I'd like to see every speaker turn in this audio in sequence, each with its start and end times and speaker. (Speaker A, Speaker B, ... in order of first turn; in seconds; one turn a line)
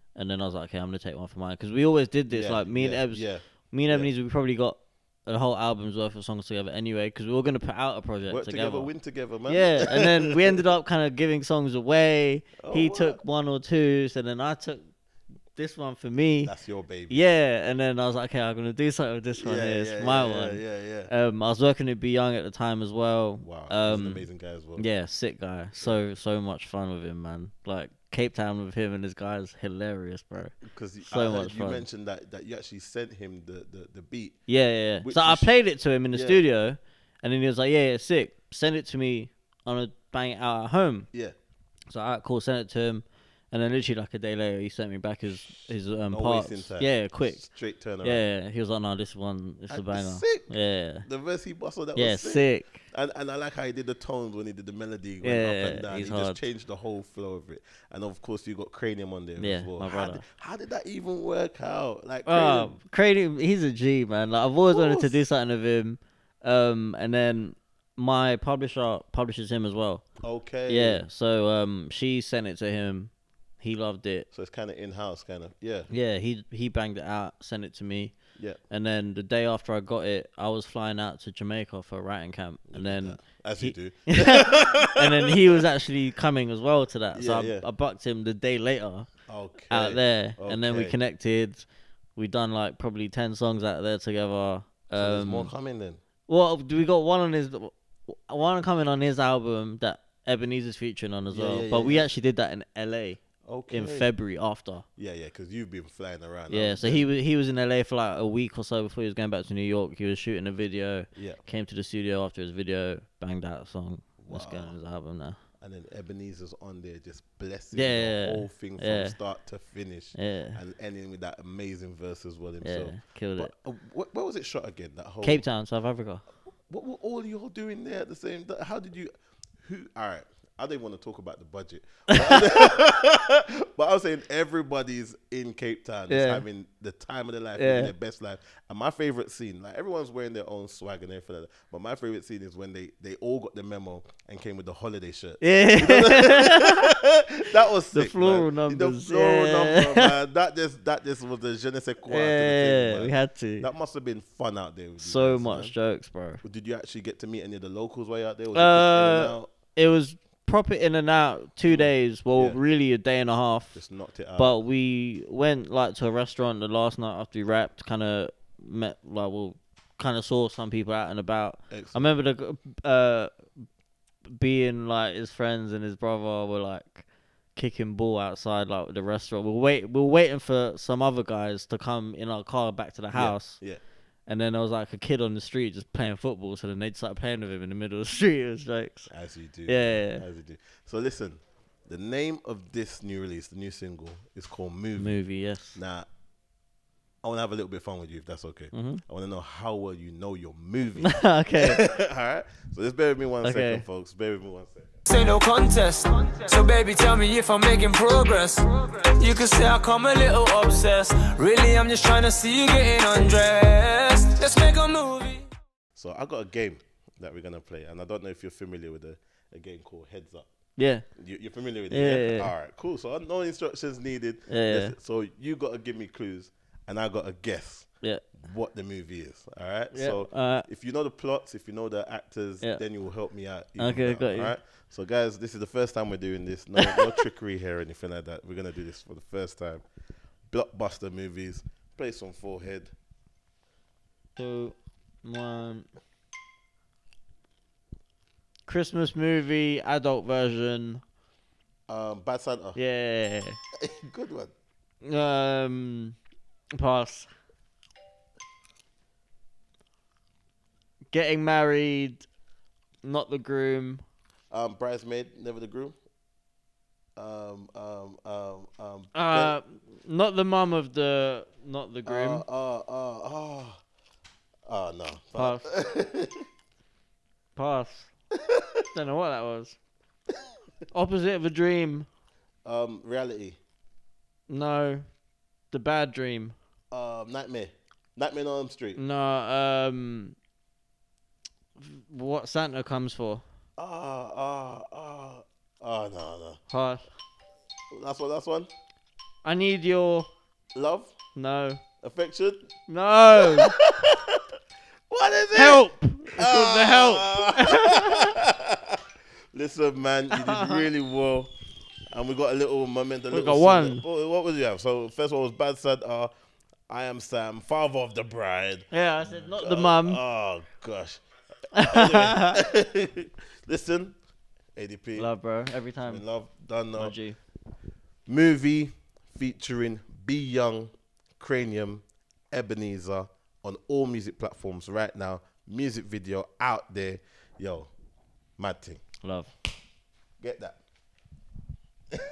Speaker A: 0.1-8.9
Speaker B: 2.3-4.1
Speaker B: 8.3-10.6
Speaker A: 9.5-14.8
Speaker B: 12.6-13.2
Speaker A: 15.5-16.5
Speaker B: 16.4-17.2
Speaker A: 17.1-31.8
Speaker B: 19.3-21.1
Speaker B: 23.4-24.9
Speaker B: 30.7-34.4
Speaker A: 34.5-41.1
Speaker B: 35.0-35.5
Speaker B: 36.1-36.4
Speaker A: 41.9-47.5
Speaker B: 46.1-48.3
Speaker A: 48.0-51.0
Speaker B: 49.7-62.7
Speaker A: 52.0-52.9
Speaker A: 55.2-56.4
Speaker A: 59.4-60.2
Speaker A: 62.2-70.0
Speaker B: 64.7-65.2
Speaker B: 70.2-71.0
Speaker A: 70.7-74.3
Speaker B: 74.3-75.9
Speaker A: 75.9-78.1
Speaker A: 78.7-89.1
Speaker B: 82.7-85.3
Speaker B: 87.1-87.6
Speaker B: 89.3-91.0
Speaker A: 89.7-91.6
Speaker A: 92.2-95.5
Speaker B: 94.9-96.0
Speaker A: 96.3-104.8
Speaker B: 101.3-102.1
Speaker B: 103.5-104.1
Speaker B: 105.0-107.0
Speaker A: 106.5-115.4
Speaker B: 114.2-114.7
Speaker B: 115.6-125.4
Speaker A: 117.7-119.2
Speaker A: 120.1-120.6
Speaker A: 122.6-123.5
Speaker A: 125.2-126.2
Speaker B: 126.7-155.7
Speaker A: 132.1-132.5
Speaker A: 136.1-136.4
Speaker A: 137.6-137.9
Speaker A: 145.4-146.9
Speaker A: 147.9-150.1
Speaker A: 152.1-153.7
Speaker A: 155.0-156.4
Speaker B: 156.4-159.5
Speaker A: 158.5-163.8
Speaker B: 161.7-162.6
Speaker B: 163.7-164.6
Speaker A: 164.3-173.3
Speaker B: 171.7-172.0
Speaker A: 174.3-183.6
Speaker B: 183.1-183.8
Speaker A: 184.3-189.1
Speaker B: 189.1-195.2
Speaker A: 189.7-190.2
Speaker A: 195.0-195.8
Speaker B: 195.7-196.1
Speaker B: 197.2-205.0
Speaker A: 198.7-199.0
Speaker A: 201.0-201.8
Speaker A: 203.4-203.8
Speaker C: 205.1-215.5
Speaker B: 215.9-220.5
Speaker A: 220.8-221.0
Speaker B: 221.2-239.8
Speaker A: 221.9-222.5
Speaker A: 224.5-224.9
Speaker A: 229.9-230.7
Speaker A: 233.8-234.5
Speaker B: 240.5-242.9
Speaker A: 244.3-245.9
Speaker A: 248.7-251.0
Speaker B: 251.9-252.8
Speaker A: 252.7-253.6
Speaker B: 253.8-254.5
Speaker A: 255.0-256.1
Speaker A: 256.7-257.3
Speaker A: 261.1-262.2
Speaker A: 263.0-264.0
Speaker B: 264.5-265.9
Speaker B: 267.1-269.6
Speaker A: 269.1-272.4
Speaker B: 272.1-273.8
Speaker B: 274.7-276.4
Speaker A: 275.3-275.7
Speaker A: 277.6-278.1
Speaker A: 278.9-279.8
Speaker A: 280.9-282.1
Speaker B: 282.6-283.6
Speaker A: 284.5-285.0
Speaker A: 285.7-286.5
Speaker B: 286.9-289.0
Speaker A: 288.9-290.4
Speaker A: 291.8-293.4
Speaker B: 293.8-296.6
Speaker A: 296.7-297.0
Speaker B: 297.9-298.7
Speaker A: 299.4-300.3
Speaker B: 300.7-301.1
Speaker A: 301.3-301.8
Speaker B: 302.0-302.7
Speaker A: 302.9-303.8
Speaker B: 303.4-304.4
Speaker B: 305.1-308.9
Speaker A: 305.5-308.4
Speaker B: 309.5-311.5
Speaker A: 310.3-310.9
Speaker B: 312.1-316.3
Speaker A: 313.3-314.0
Speaker B: 316.9-324.2
Speaker A: 318.9-320.2
Speaker A: 321.7-322.6
Speaker B: 324.8-325.3
Speaker A: 325.1-326.2
Speaker B: 326.1-327.1
Speaker A: 326.9-327.4
Speaker B: 328.2-337.9
Speaker B: 338.6-339.0
Speaker A: 339.2-339.5
Speaker B: 340.4-340.8